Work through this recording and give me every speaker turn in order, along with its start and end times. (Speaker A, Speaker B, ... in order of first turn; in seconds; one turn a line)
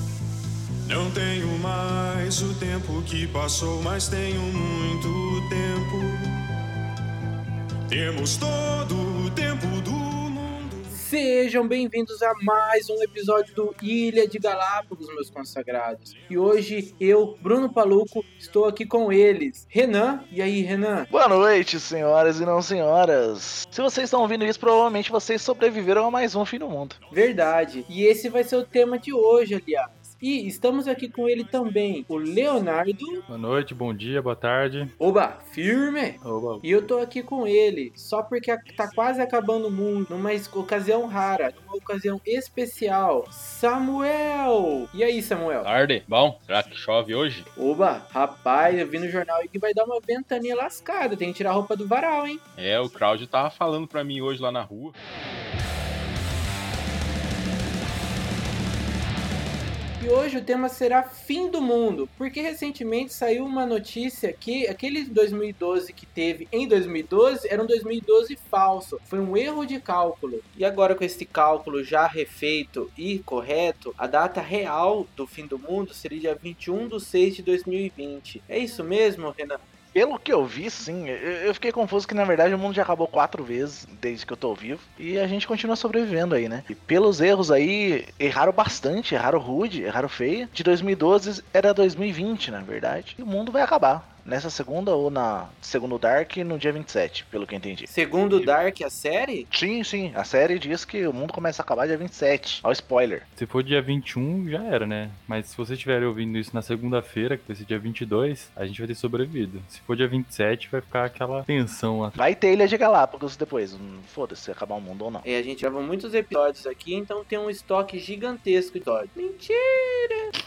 Speaker A: 0.9-6.3
Speaker A: 7.9-11.0
Speaker B: 10.9-21.1
Speaker C: 21.1-27.0
Speaker B: 27.1-33.2
Speaker D: 33.3-34.9
Speaker B: 35.0-45.7
Speaker D: 36.2-36.6
Speaker E: 45.6-47.5
Speaker B: 47.6-52.4
Speaker E: 52.6-55.0
Speaker B: 60.0-79.6
Speaker C: 79.9-97.9
Speaker B: 97.9-99.5
Speaker C: 99.5-103.3
Speaker D: 103.4-112.2
Speaker C: 112.2-115.2
Speaker B: 115.2-120.3